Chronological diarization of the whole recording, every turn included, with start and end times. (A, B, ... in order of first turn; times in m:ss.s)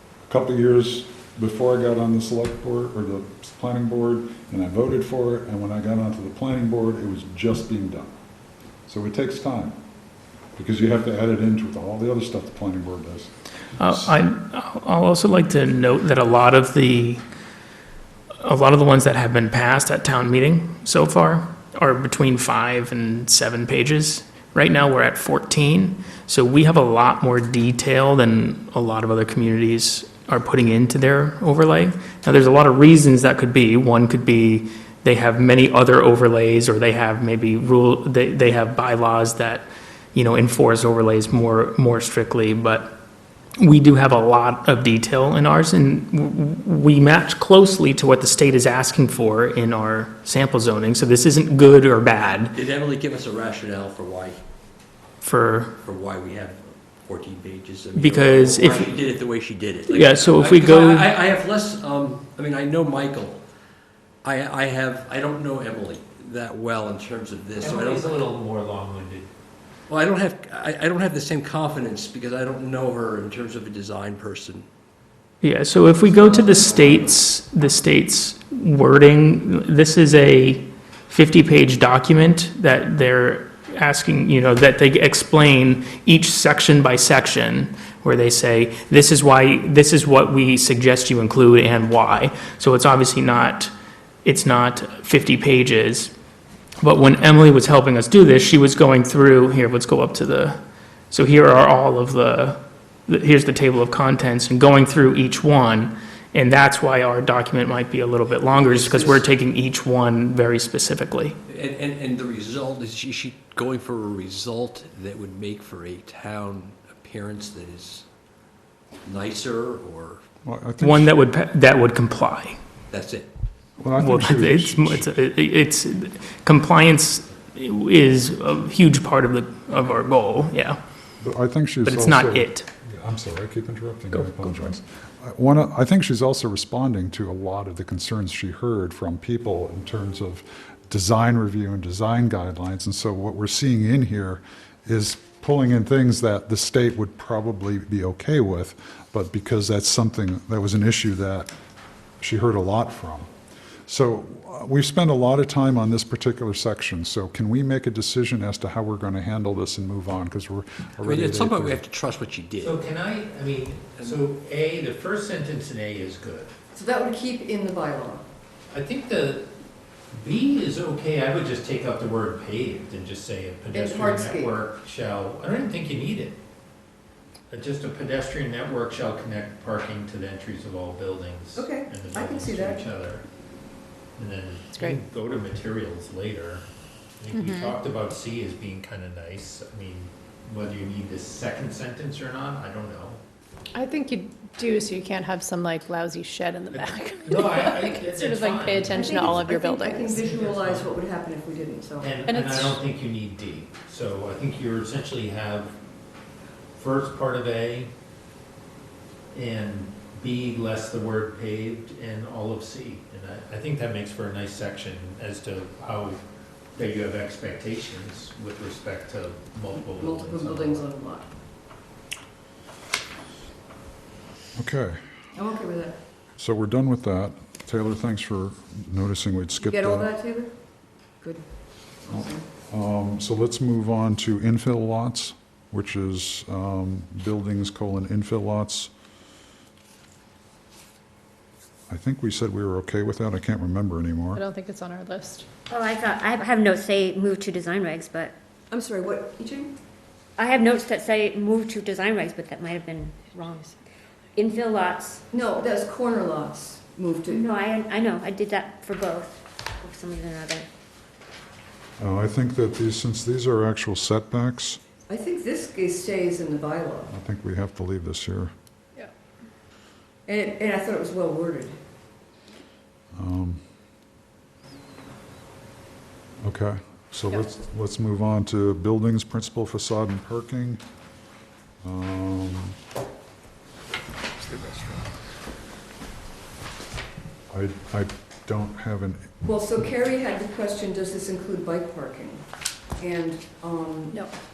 0:00.3-0:08.1 A
0:08.9-0:09.8 A
0:10.5-0:14.2 A
0:13.8-0:17.2 B
0:18.4-0:42.9 B
0:43.6-0:52.5 B
0:52.5-0:54.4 C
0:55.2-0:55.7 B
0:55.8-1:03.4 C
0:57.9-0:58.9 B
0:59.9-1:01.1 B
1:04.2-1:08.3 C
1:07.6-1:09.3 D
1:09.9-1:14.6 C
1:15.4-1:33.7 B
1:16.0-1:17.3 C
1:34.2-1:36.1 B
1:36.8-1:40.6 B
1:41.1-1:51.4 B
1:48.4-1:49.2 C
1:51.5-1:58.0 C
1:59.0-2:00.2 C
2:00.4-2:01.1 A
2:00.8-2:02.6 B
2:02.9-2:03.3 C
2:03.8-2:05.1 A
2:04.0-2:10.8 B
2:11.2-2:31.5 A
2:11.8-2:12.7 B
2:14.1-2:14.8 B
2:32.2-2:33.3 A
2:33.9-2:41.8 A
2:41.0-2:42.8 C
2:42.6-2:46.5 D
2:46.7-2:48.2 E
2:48.7-2:49.4 D
2:50.1-2:56.4 D
2:53.7-2:54.5 E
2:57.5-3:03.2 D
3:01.6-3:02.8 E
3:04.2-3:06.6 D
3:07.2-3:13.2 D
3:07.3-3:07.8 F
3:13.7-3:20.2 F
3:16.7-3:19.4 D
3:18.8-3:22.4 E
3:20.2-3:20.9 D
3:22.0-3:25.7 D
3:22.3-3:22.8 F
3:26.8-3:27.9 D
3:29.3-3:36.2 D
3:36.7-3:40.8 D
3:39.7-3:41.3 E
3:44.6-3:45.0 A
3:45.3-3:46.0 E
3:46.4-3:50.1 A
3:49.6-3:50.5 E
3:52.0-3:52.4 E
3:52.1-3:58.9 A
4:01.9-4:04.4 A
4:04.3-4:05.4 F
4:05.7-4:08.3 G
4:08.7-4:09.7 E
4:10.4-4:13.8 G
4:14.4-4:15.2 G
4:15.3-4:17.4 E
4:17.3-4:20.7 G
4:22.0-4:24.8 A
4:25.1-4:27.1 E
4:27.1-4:28.5 A
4:30.2-4:31.7 E
4:33.2-4:33.6 A
4:36.4-4:40.8 A
4:41.8-4:42.8 A
4:47.5-4:49.3 A
4:49.4-4:52.4 E
4:53.0-4:54.3 E